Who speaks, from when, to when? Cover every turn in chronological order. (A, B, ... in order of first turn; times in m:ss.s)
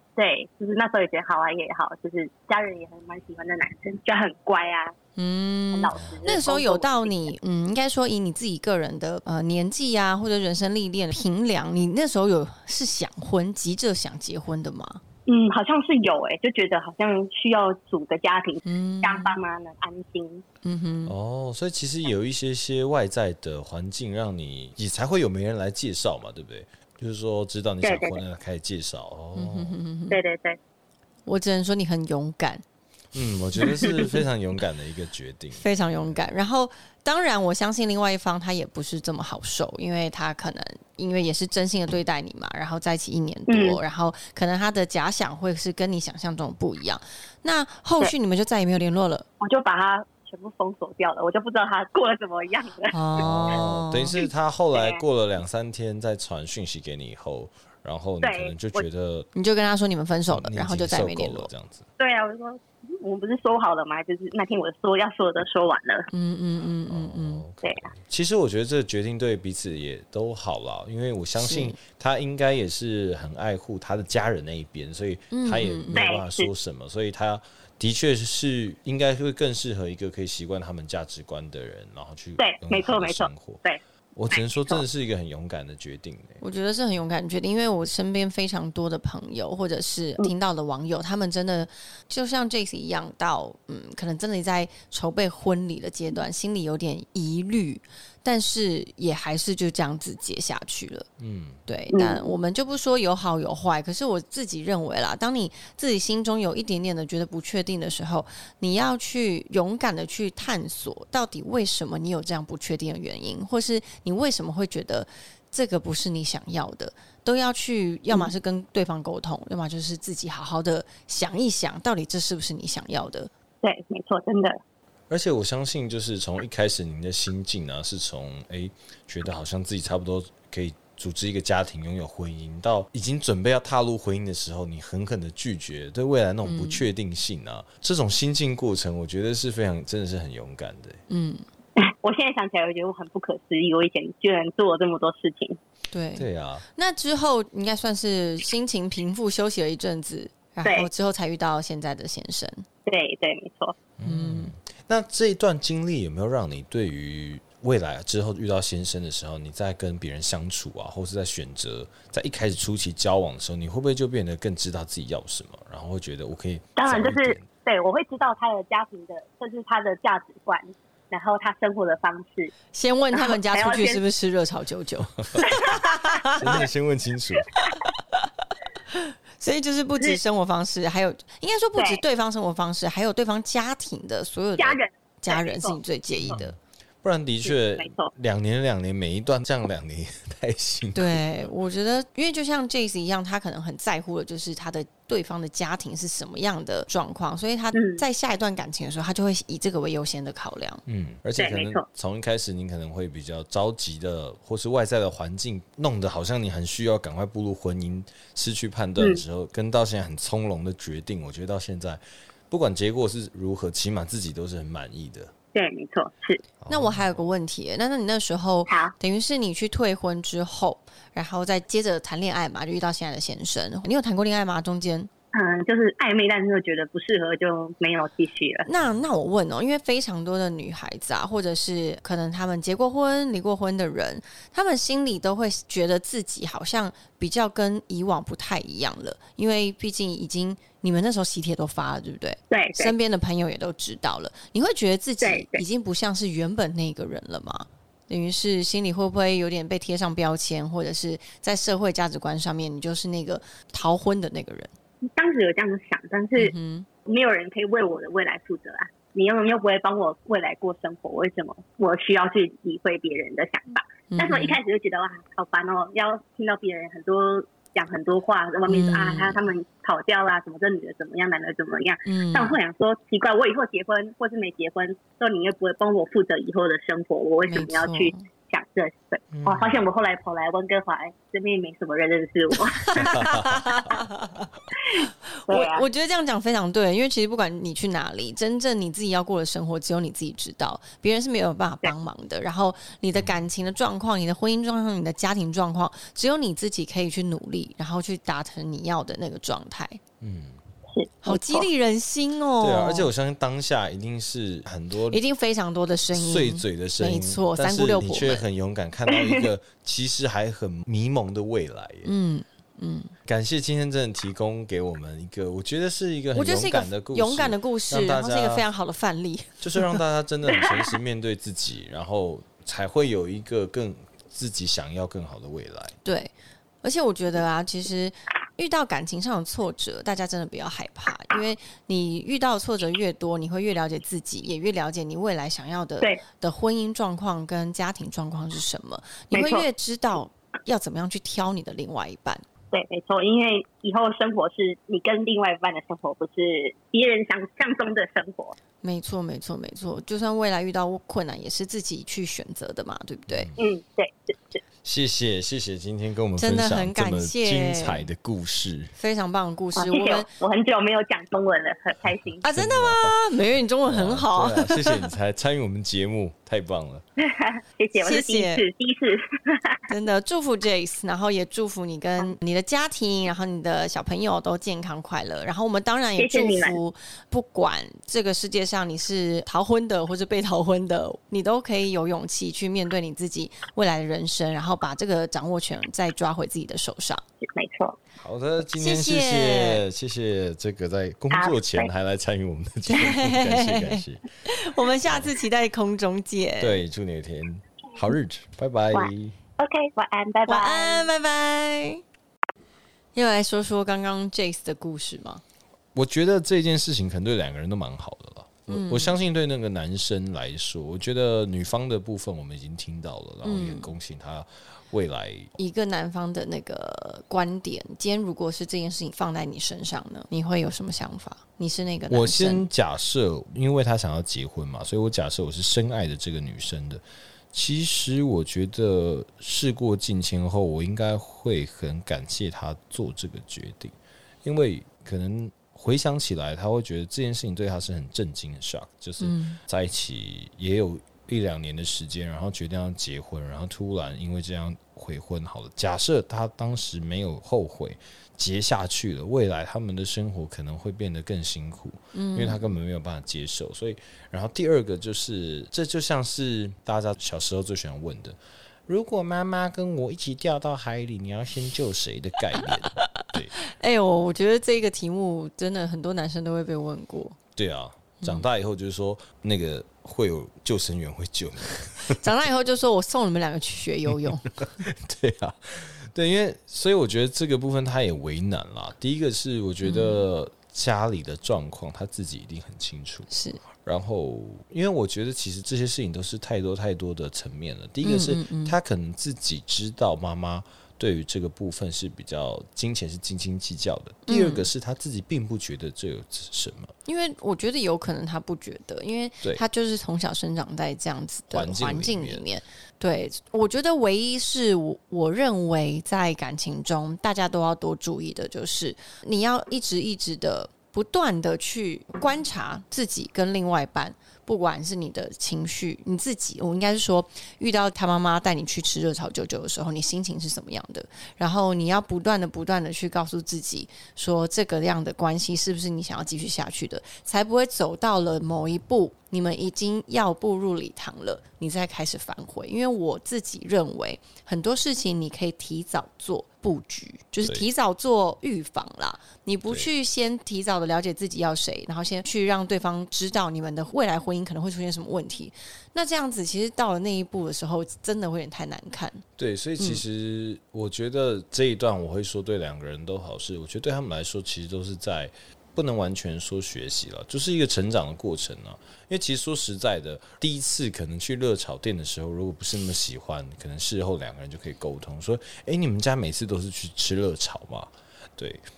0:00.2-0:04.9 A
0:05.2-0:15.0 B
0:05.7-0:07.3 A
0:05.9-0:06.3 C
0:15.3-0:20.4 A
0:18.6-0:19.4 B
0:20.6-0:21.1 B
0:21.0-0:29.8 C
0:27.8-0:28.2 A
0:29.3-0:30.2 B
0:30.1-0:30.6 A
0:31.3-0:32.6 B
0:33.1-0:36.2 C
0:35.6-0:49.2 B
0:43.5-0:43.8 A
0:49.4-0:53.0 A
0:52.9-0:54.2 B
0:53.2-0:59.3 C
0:54.7-0:55.0 A
0:58.2-0:58.8 A
0:59.3-1:01.5 B
1:00.3-1:01.8 C
1:02.0-1:06.1 A
1:06.1-1:07.4 B
1:06.9-1:23.6 C
1:07.6-1:07.9 A
1:11.3-1:11.8 B
1:15.3-1:16.1 B
1:15.9-1:16.5 A
1:22.4-1:23.8 A
1:24.1-1:26.4 C
1:24.3-1:24.8 A
1:26.4-1:41.1 B
1:41.2-1:41.6 C
1:41.7-2:03.3 B
1:41.9-1:42.3 A
2:03.6-2:04.6 A
2:05.1-2:21.0 C
2:16.4-2:16.8 B
2:21.1-2:21.4 B
2:21.8-2:25.6 A
2:25.9-2:32.6 B
2:26.2-2:26.6 C
2:32.8-2:33.8 A
2:34.0-2:47.5 C
2:34.0-2:34.5 B
2:46.8-2:52.5 A
2:52.7-2:56.6 B
2:53.1-2:54.0 A
2:55.4-2:56.6 A
2:56.4-2:57.5 C
2:57.7-2:58.2 B
2:58.9-3:06.6 B
3:01.8-3:02.0 A
3:04.6-3:06.4 A
3:06.2-3:11.2 C
3:07.4-3:08.1 A
3:10.9-3:20.8 B
3:17.7-3:18.0 A
3:20.8-3:35.3 C
3:21.4-3:21.8 A
3:35.5-3:36.4 A
3:36.6-3:37.2 C
3:36.7-3:45.1 B
3:38.7-3:38.9 A
3:45.3-3:48.7 A
3:48.6-4:14.7 B
4:02.5-4:02.9 A
4:05.2-4:05.6 A
4:15.0-4:43.2 A
4:16.4-4:16.9 B
4:24.1-4:24.6 B
4:28.7-4:29.4 B
4:32.0-4:32.6 B
4:37.5-4:38.2 B
4:39.3-4:39.8 C
4:42.8-4:44.5 B
4:42.9-4:43.9 C
4:44.8-4:45.8 A
4:45.4-5:00.0 B
4:53.2-4:53.4 C
5:00.2-5:00.6 C
5:00.9-5:01.7 A
5:01.2-5:03.1 B
5:02.6-5:05.2 C
5:05.1-5:08.4 B
5:06.1-5:12.1 C
5:09.1-5:09.4 A
5:12.0-5:13.1 B
5:13.2-5:18.6 C
5:16.3-5:20.0 B
5:19.6-5:25.9 C
5:26.0-5:26.3 B
5:26.8-5:42.4 B
5:39.3-5:39.6 A
5:42.7-5:48.6 A
5:48.8-5:53.5 B
5:53.3-5:53.6 C
5:53.6-5:54.6 A
5:54.8-5:58.9 C
5:56.4-5:58.0 B
5:59.0-6:00.3 B
5:59.8-6:02.4 A
6:02.4-6:05.1 B
6:02.4-6:03.2 C
6:03.8-6:07.0 C
6:07.2-6:09.8 A
6:08.0-6:08.6 B
6:09.9-6:27.2 B
6:16.2-6:16.8 A
6:27.4-6:28.0 A
6:28.2-6:34.2 C
6:28.7-6:29.8 B
6:31.3-6:31.9 A
6:32.9-6:36.8 B
6:36.6-6:39.4 C
6:38.9-6:41.1 A
6:40.5-6:42.0 B
6:43.1-6:45.4 B
6:45.9-6:55.5 C
6:48.7-6:49.2 B
6:53.4-6:53.9 B
6:55.6-7:02.6 B
7:02.1-7:43.6 C
7:19.2-7:19.6 B
7:32.1-7:32.7 B
7:43.2-7:47.4 B
7:47.6-7:52.2 C
7:52.1-7:54.7 B
7:54.6-8:16.9 C
7:59.8-8:00.2 B
8:03.3-8:03.6 B
8:08.0-8:08.8 B
8:14.3-8:14.7 B
8:17.0-9:09.2 B
8:21.5-8:22.4 C
9:09.4-9:28.6 C